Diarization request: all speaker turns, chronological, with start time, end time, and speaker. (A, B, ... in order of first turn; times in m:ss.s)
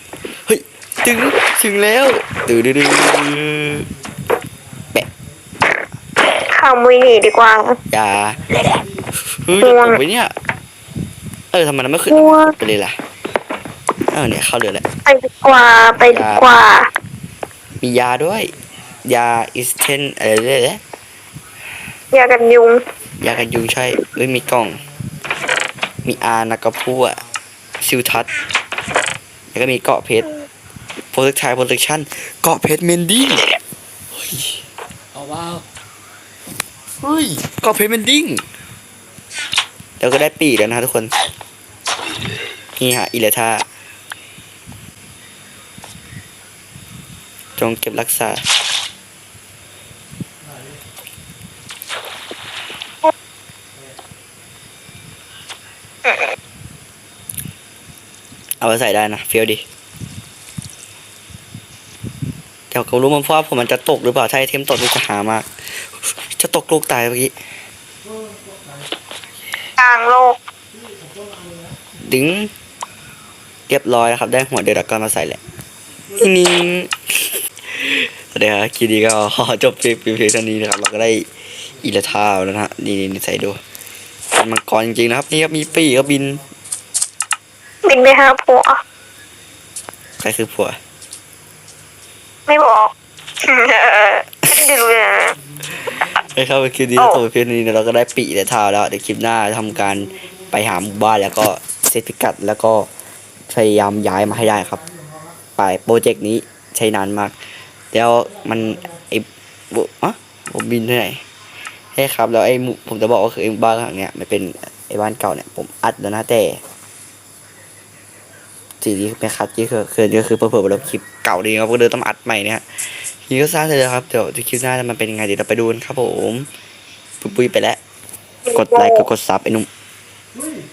0:00.4-0:03.9 A
0:06.4-0:07.8 B
0:07.9-0:08.5 A
0:09.3-0:10.3 A
0:09.6-0:10.0 B
0:11.5-0:13.0 A
0:12.1-0:12.6 B
0:14.1-0:14.8 A
0:15.0-0:16.9 B
0:16.0-0:16.4 A
0:17.8-0:18.5 A
0:19.0-0:20.8 A
0:22.1-0:22.8 B
0:23.2-0:24.8 A
0:26.0-0:27.2 A
0:27.8-0:28.3 A
0:29.5-0:30.3 A
0:31.1-0:33.5 A
0:34.1-0:34.6 A
0:37.0-0:38.4 A
0:40.0-0:41.1 A
0:42.8-0:43.6 A
0:47.6-0:48.4 A
0:56.0-0:56.3 B
0:58.6-0:59.6 A
1:02.7-1:07.3 A
1:09.8-1:10.4 B
1:12.0-1:12.5 A
1:13.7-1:15.4 A
1:16.1-1:23.6 A
1:24.3-1:26.4 A
1:27.8-1:28.8 B
1:30.2-1:30.8 A
1:32.5-1:35.4 B
1:36.2-1:42.9 A
1:37.0-1:37.2 B
1:43.5-1:44.8 A
1:45.6-1:47.4 A
1:47.9-1:51.2 A
1:51.9-1:56.6 A
1:58.8-2:06.5 A
2:07.2-2:07.8 A
2:08.4-2:09.1 B
2:08.5-2:09.7 A